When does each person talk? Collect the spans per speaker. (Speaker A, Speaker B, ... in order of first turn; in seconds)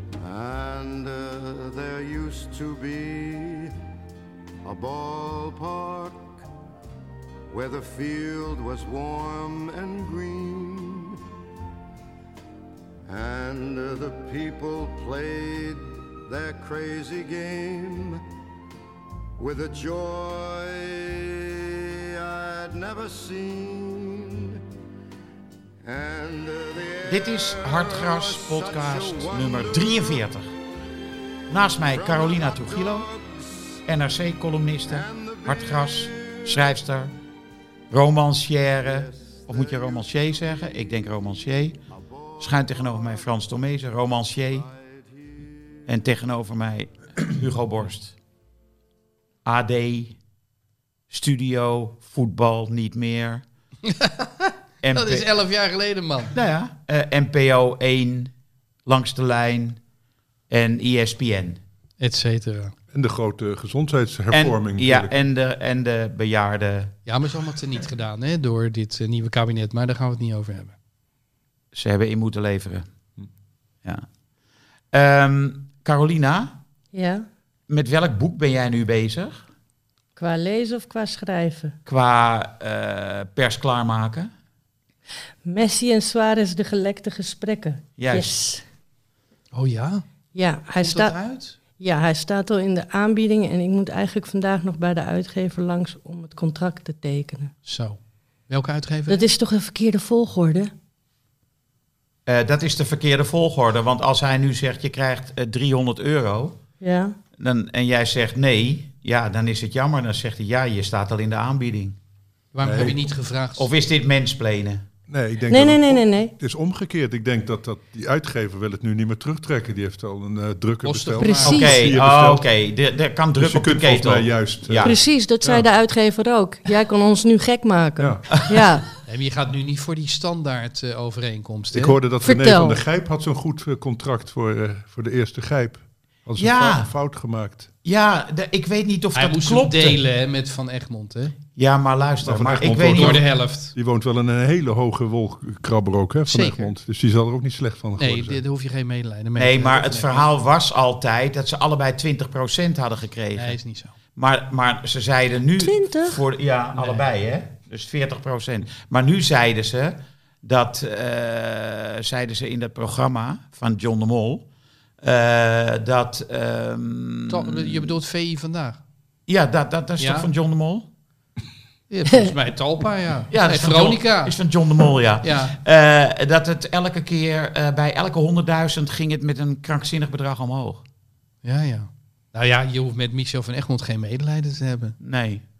Speaker A: 0.2-3.7, 4.7-6.4, 7.5-11.2, 13.1-18.2, 19.4-24.6, 25.8-30.3, 31.9-33.8, 34.9-36.7, 38.8-40.7, 42.2-43.3, 44.5-45.8
Speaker B: 27.1-30.5, 31.5-33.1, 33.9-37.1, 37.9-41.8, 42.4-44.7, 45.9-48.1, 49.5-50.2, 51.1-53.4, 54.8-55.3, 56.3-58.3, 58.9-59.8, 60.5-61.6, 64.3-67.0, 71.7-72.8, 74.9-76.6, 77.7-79.4, 81.9-84.3, 88.0-88.3, 102.3-106.6, 107.4-112.0, 113.6-114.8, 121.5-125.0, 136.4-136.9, 137.8-140.0, 141.6-143.2, 149.4-153.6, 154.2-164.4, 165.0-167.9, 169.3-170.9, 173.3-180.8, 185.0-185.4
Speaker C: 53.9-56.3, 62.0-62.7, 67.1-70.8, 89.5-90.0, 90.8-91.5, 97.7-99.3, 112.5-113.7, 120.8-121.6, 129.1-132.0, 139.1-141.3, 142.9-143.7, 146.3-146.7, 148.0-150.3, 153.3-153.9, 156.8-157.0, 167.3-168.8, 170.0-170.3, 171.9-174.3, 175.2-175.6, 181.4-185.0
Speaker D: 62.9-65.1, 112.6-113.0, 115.1-122.5, 123.4-124.9, 125.4-125.7, 128.0-128.4, 131.7-137.7, 142.2-148.4
Speaker E: 76.9-77.3, 80.2-81.8, 85.5-88.6, 90.3-91.2, 91.8-97.5, 99.1-100.7, 106.8-107.2, 115.5-116.3, 121.2-121.9, 124.8-128.9, 132.2-132.8, 155.6-156.2